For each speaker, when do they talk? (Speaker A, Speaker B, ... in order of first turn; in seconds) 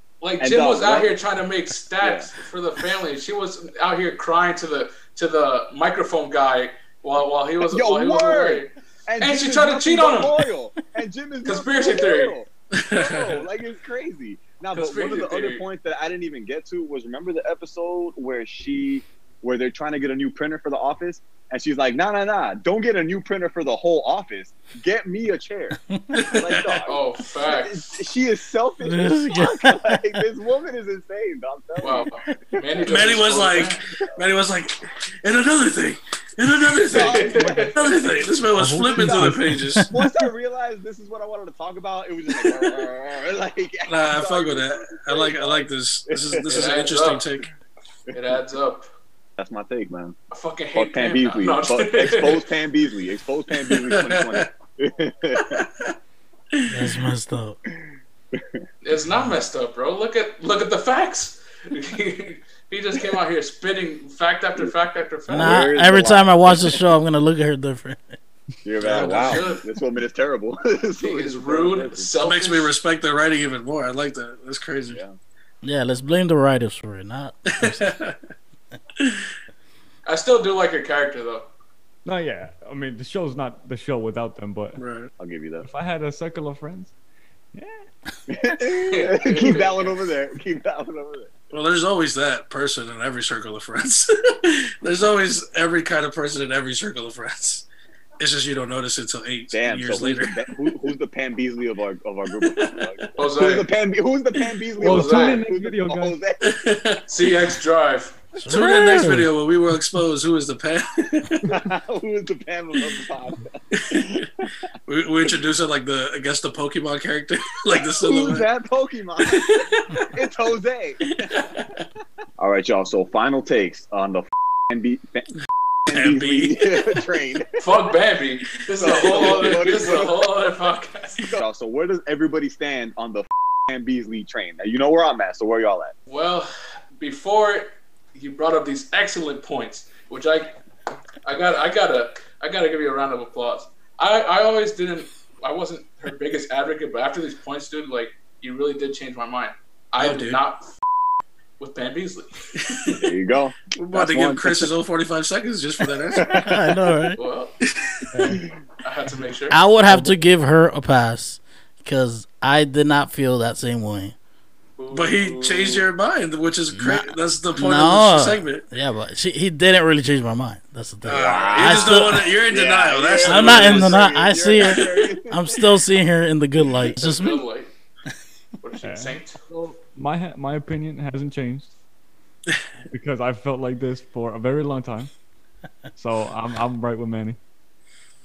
Speaker A: 0.2-10.4, 11.4-12.3, 14.7-15.7, 26.8-27.7, 31.8-33.8, 36.9-37.8, 46.5-47.3, 48.1-48.9, 50.3-52.5, 58.8-65.7, 68.8-69.7, 71.0-72.7, 80.1-81.5, 88.9-89.9, 103.2-103.7, 104.8-105.4, 107.1-108.2, 127.6-131.3, 136.1-140.6, 141.2-150.7, 151.6-152.9, 157.2-157.6, 158.8-159.6, 164.8-165.8, 177.0-177.7, 178.6-179.4
Speaker B: 0.4-1.1, 2.0-2.3, 7.7-25.8, 26.3-33.4, 36.9-39.4, 39.9-46.6, 49.4-50.2, 50.8-55.6, 65.3-66.8, 68.6-72.2, 74.9-75.2, 85.2-85.7, 88.3-91.3, 99.5-106.6, 111.5-114.3, 118.0-121.0, 122.4-125.3, 125.9-127.5, 128.8-130.6, 131.2-135.9, 153.0-154.7, 156.1-156.6, 171.2-175.4
Speaker C: 12.8-13.4, 26.2-26.9, 32.9-39.9, 43.9-47.5, 53.6-54.5, 55.5-55.9, 68.9-69.3, 72.2-75.0, 77.6-78.2, 84.8-85.1, 91.5-97.7, 98.2-100.4, 102.5-103.1, 106.4-107.0, 108.5-111.5, 113.8-114.0, 114.9-118.5, 119.2-120.0, 121.1-121.7, 125.9-127.1, 128.9-129.6, 150.0-150.4, 153.8-156.3, 164.9-168.7, 171.0-175.0
Speaker D: 25.7-26.3, 28.8-30.0, 39.7-40.1, 56.7-57.6, 65.3-68.0, 75.6-77.9, 108.4-109.3, 156.2-157.2, 159.5-164.2, 166.7-172.3, 173.2-177.4
Speaker E: 37.3-37.7, 38.6-39.6, 82.0-84.8, 85.6-87.0, 87.5-87.9, 104.7-106.2, 159.9-160.1, 178.8-181.8, 182.9-185.1, 185.9-187.4